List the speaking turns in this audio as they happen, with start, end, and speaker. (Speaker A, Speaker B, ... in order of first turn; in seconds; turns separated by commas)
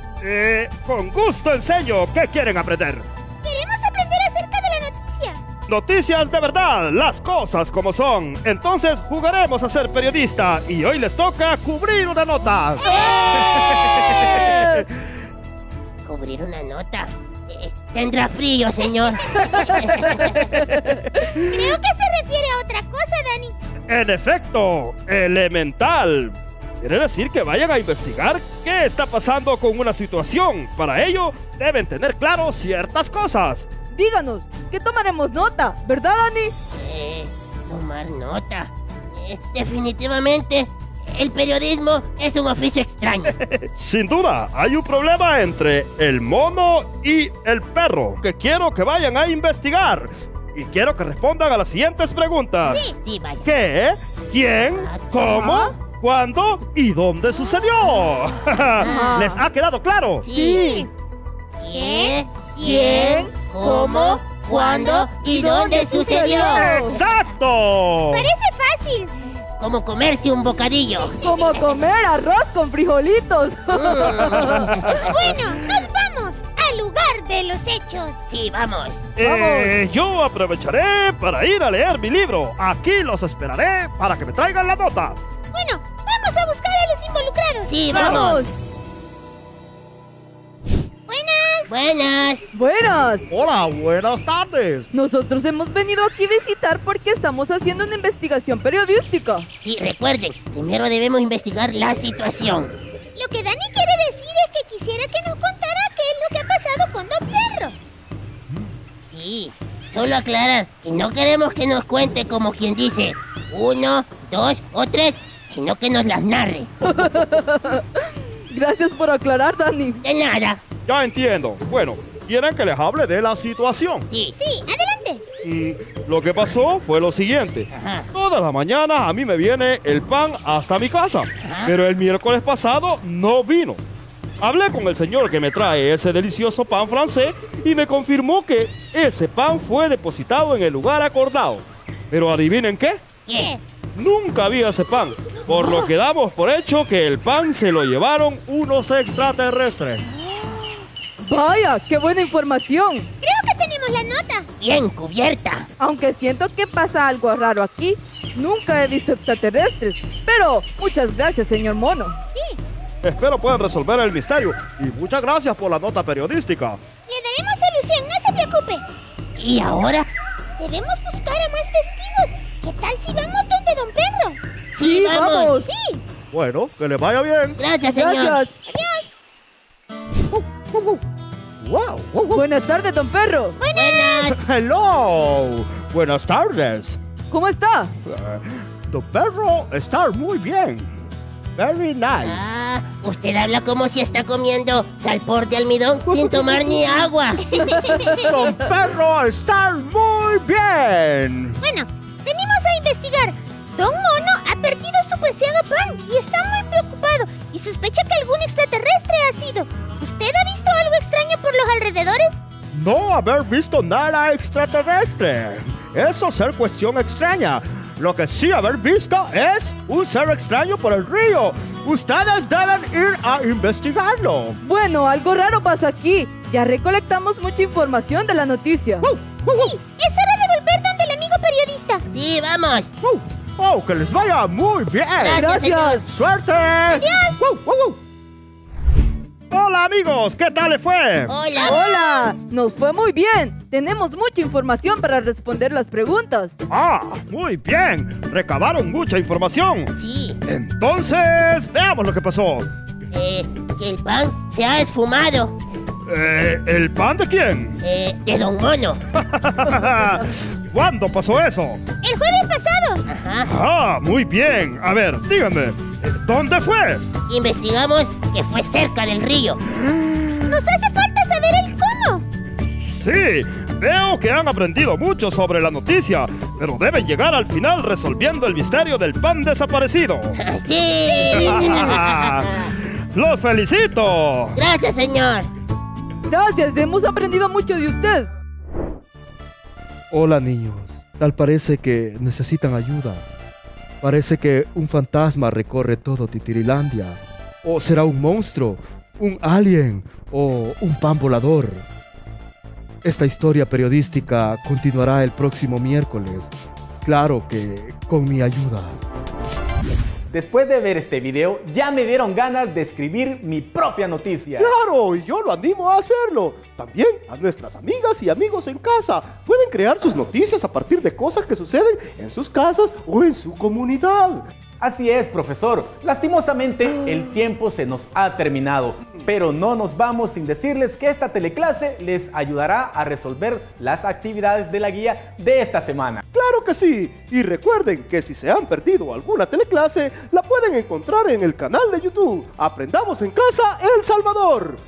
Speaker A: 0.2-3.1, Speaker B: 3.4-5.4, Speaker A: 5.7-14.6, Speaker B: 12.8-14.7, Speaker C: 14.4-14.8, Speaker D: 16.1-20.3, Speaker B: 18.8-19.8, Speaker C: 19.9-21.1, Speaker B: 21.2-23.5, Speaker A: 21.5-21.8, Speaker A: 23.9-33.7, Speaker C: 33.9-36.5, Speaker D: 36.8-43.3, Speaker A: 43.5-52.9, Speaker D: 52.7-53.5, Speaker A: 53.4-60.3, Speaker D: 54.8-55.1, Speaker C: 55.4-55.7, Speaker C: 58.8-59.4, Speaker D: 58.8-59.1, Speaker D: 60.2-60.7, Speaker B: 60.3-60.9, Speaker C: 60.4-60.9, Speaker D: 61.6-66.6, Speaker B: 61.7-67.0, Speaker C: 62.6-63.3, Speaker C: 66.1-67.0, Speaker A: 66.2-68.3, Speaker B: 68.1-69.1, Speaker D: 69.6-71.6, Speaker B: 70.9-71.4, Speaker C: 71.1-74.8, Speaker D: 73.8-74.9, Speaker A: 74.0-75.0, Speaker B: 74.9-78.3, Speaker D: 78.2-79.0, Speaker A: 79.2-85.2, Speaker C: 79.2-79.8, Speaker B: 85.5-88.4, Speaker D: 87.7-88.4, Speaker C: 87.9-88.6, Speaker B: 91.1-92.0, Speaker D: 91.7-92.5, Speaker C: 92.5-93.3, Speaker A: 93.3-94.9, Speaker C: 94.9-99.5, Speaker D: 99.6-102.8, Speaker B: 103.2-107.8, Speaker D: 109.1-116.7, Speaker C: 116.8-120.0, Speaker D: 120.0-120.6, Speaker A: 120.9-124.1, Speaker B: 124.3-125.2, Speaker A: 125.4-133.8, Speaker D: 127.7-128.1, Speaker D: 131.4-131.7, Speaker A: 134.4-143.1, Speaker A: 143.9-150.1, Speaker C: 151.2-153.1, Speaker B: 153.2-154.6, Speaker D: 154.6-155.7, Speaker C: 155.8-162.2, Speaker B: 162.3-162.6, Speaker A: 163.0-166.8, Speaker B: 167.1-168.8, Speaker D: 169.4-170.1, Speaker B: 170.6-174.4, Speaker D: 174.8-175.5, Speaker C: 174.8-175.7, Speaker B: 175.2-176.0, Speaker A: 176.3-177.7, Speaker D: 177.6-178.4, Speaker C: 177.9-178.5, Speaker B: 178.6-179.1, Speaker A: 180.3-181.0, Speaker A: 181.6-182.4, Speaker C: 182.3-183.6, Speaker B: 183.6-184.3, Speaker D: 183.8-184.4, Speaker A: 184.3-187.0, Speaker C: 187.3-187.9, Speaker A: 188.1-190.9, Speaker A: 191.6-192.5, Speaker D: 192.2-197.4, Speaker B: 197.5-198.3, Speaker C: 197.6-198.4, Speaker A: 198.2-201.6, Speaker B: 201.6-212.4, Speaker A: 212.7-224.6, Speaker C: 224.6-229.1, Speaker B: 229.3-232.1, Speaker D: 232.1-232.9, Speaker A: 233.0-237.1, Speaker D: 235.2-236.0, Speaker C: 235.3-236.1, Speaker B: 236.9-237.4, Speaker A: 239.5-241.4, Speaker D: 241.3-241.6, Speaker B: 241.5-241.8, Speaker C: 241.6-246.5, Speaker A: 246.7-249.9, Speaker D: 250.0-250.4, Speaker A: 250.5-252.7, Speaker D: 253.1-255.5, Speaker A: 256.1-257.8, Speaker D: 257.8-259.0, Speaker A: 259.2-261.8, Speaker B: 262.0-263.1, Speaker D: 263.1-263.5, Speaker A: 263.4-267.1, Speaker D: 267.3-269.6, Speaker B: 270.5-272.2, Speaker A: 272.9-280.4, Speaker D: 280.4-282.2, Speaker B: 281.0-281.6, Speaker A: 281.2-284.6, Speaker D: 284.6-285.5, Speaker C: 286.3-288.3, Speaker E: 290.1-293.2, Speaker E: 294.0-301.9, Speaker E: 303.0-306.5, Speaker E: 307.0-308.9, Speaker F: 310.3-314.7, Speaker E: 314.6-324.4, Speaker F: 324.8-336.2, Speaker E: 336.3-344.8